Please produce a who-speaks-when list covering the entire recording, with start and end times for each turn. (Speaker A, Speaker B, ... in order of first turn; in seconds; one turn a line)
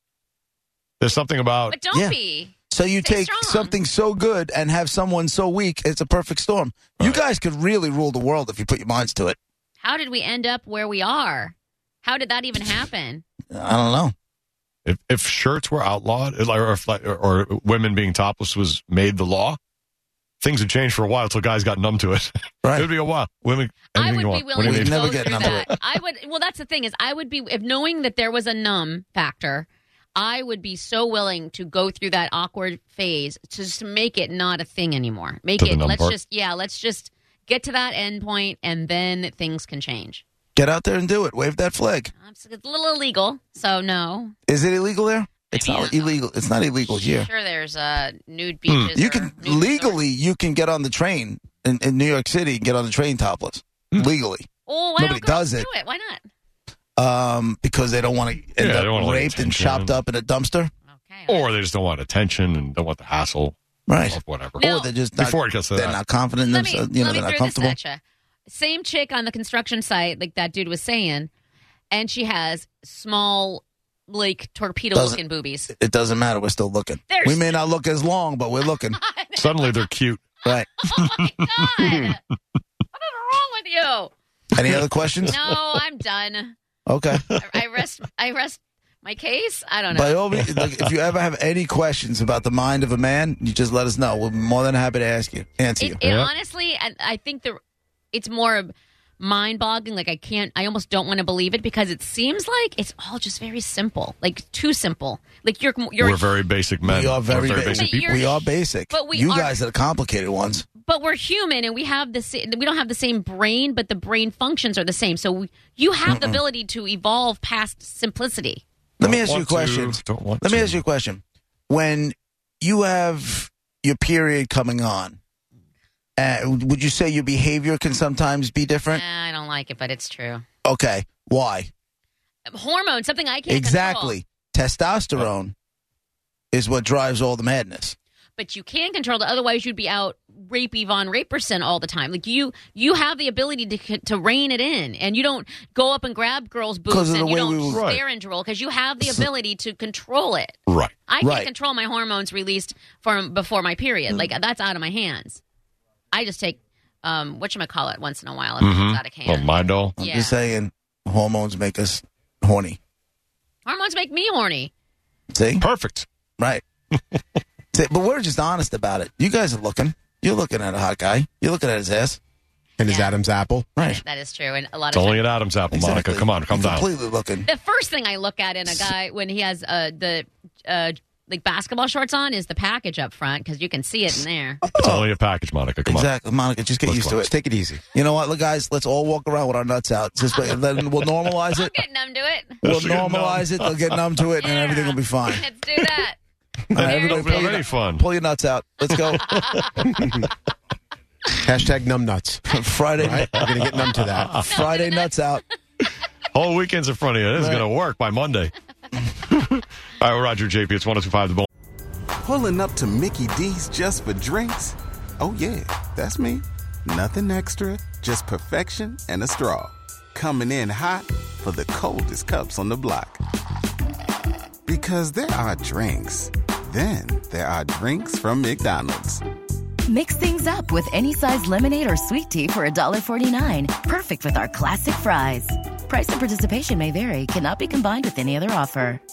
Speaker A: 1.0-1.8
Speaker B: 1.7-3.8
Speaker C: 1.9-2.2
Speaker C: 2.7-9.4
Speaker B: 9.8-13.2
Speaker C: 13.5-14.1
Speaker A: 14.8-19.6
Speaker A: 20.4-25.8
Speaker B: 23.9-40.2
Speaker C: 24.6-25.7
Speaker A: 35.6-36.2
Speaker C: 40.5-42.1
Speaker B: 42.2-44.4
Speaker C: 44.5-47.3
Speaker B: 45.5-46.2
Speaker B: 46.8-50.0
Speaker A: 48.7-48.9
Speaker C: 49.0-55.7
Speaker B: 54.7-56.2
Speaker C: 57.0-60.7
Speaker A: 58.6-60.0
Speaker B: 60.9-61.5
Speaker A: 61.3-64.6
Speaker C: 63.9-67.8
Speaker B: 64.6-65.1
Speaker A: 65.2-66.0
Speaker B: 66.4-71.3
Speaker B: 71.9-75.7
Speaker C: 74.9-79.0
Speaker B: 77.1-77.6
Speaker B: 78.9-79.9
Speaker A: 79.3-80.3
Speaker B: 80.5-82.2
Speaker A: 81.0-82.1
Speaker B: 83.0-84.1
Speaker C: 84.6-85.4
Speaker B: 85.3-86.5
Speaker C: 86.9-87.2
Speaker B: 87.4-90.2
Speaker C: 89.9-96.0
Speaker B: 95.8-97.6
Speaker A: 96.0-96.3
Speaker B: 98.1-106.3
Speaker A: 106.0-108.4
Speaker C: 106.8-110.7
Speaker B: 107.6-109.6
Speaker B: 110.8-118.6
Speaker C: 116.1-116.4
Speaker C: 119.0-125.2
Speaker A: 119.0-120.8
Speaker C: 126.2-129.0
Speaker B: 128.9-130.4
Speaker C: 130.7-131.7
Speaker B: 132.5-134.2
Speaker C: 133.5-135.5
Speaker C: 136.5-138.0
Speaker B: 138.4-155.4
Speaker C: 146.9-147.8
Speaker A: 147.7-148.0
Speaker C: 151.2-151.5
Speaker B: 156.1-160.4
Speaker A: 158.6-159.9
Speaker C: 160.0-162.8
Speaker B: 163.7-164.7
Speaker C: 165.3-165.6
Speaker A: 165.6-166.1
Speaker C: 167.7-172.2
Speaker D: 172.8-173.7
Speaker B: 172.8-173.2
Speaker C: 173.8-174.0
Speaker B: 173.8-175.4
Speaker A: 174.9-176.9
Speaker C: 175.7-177.5
Speaker B: 177.5-184.8
Speaker C: 178.7-178.9
Speaker C: 184.6-185.1
Speaker A: 184.8-186.1
Speaker C: 185.8-187.3
Speaker A: 186.8-187.3
Speaker D: 187.2-187.8
Speaker C: 187.9-191.7
Speaker B: 191.6-192.6
Speaker A: 192.6-194.0
Speaker C: 192.6-195.4
Speaker B: 194.4-196.2
Speaker C: 196.7-199.3
Speaker B: 196.7-197.7
Speaker A: 196.8-198.0
Speaker B: 199.2-199.7
Speaker A: 199.2-199.8
Speaker D: 201.4-202.4
Speaker C: 202.5-203.3
Speaker D: 203.0-204.4
Speaker A: 203.2-204.5
Speaker C: 204.4-205.4
Speaker B: 204.4-205.4
Speaker A: 206.3-208.5
Speaker C: 207.4-207.7
Speaker A: 209.3-211.5
Speaker E: 212.2-223.2
Speaker E: 224.7-229.2
Speaker F: 229.9-239.0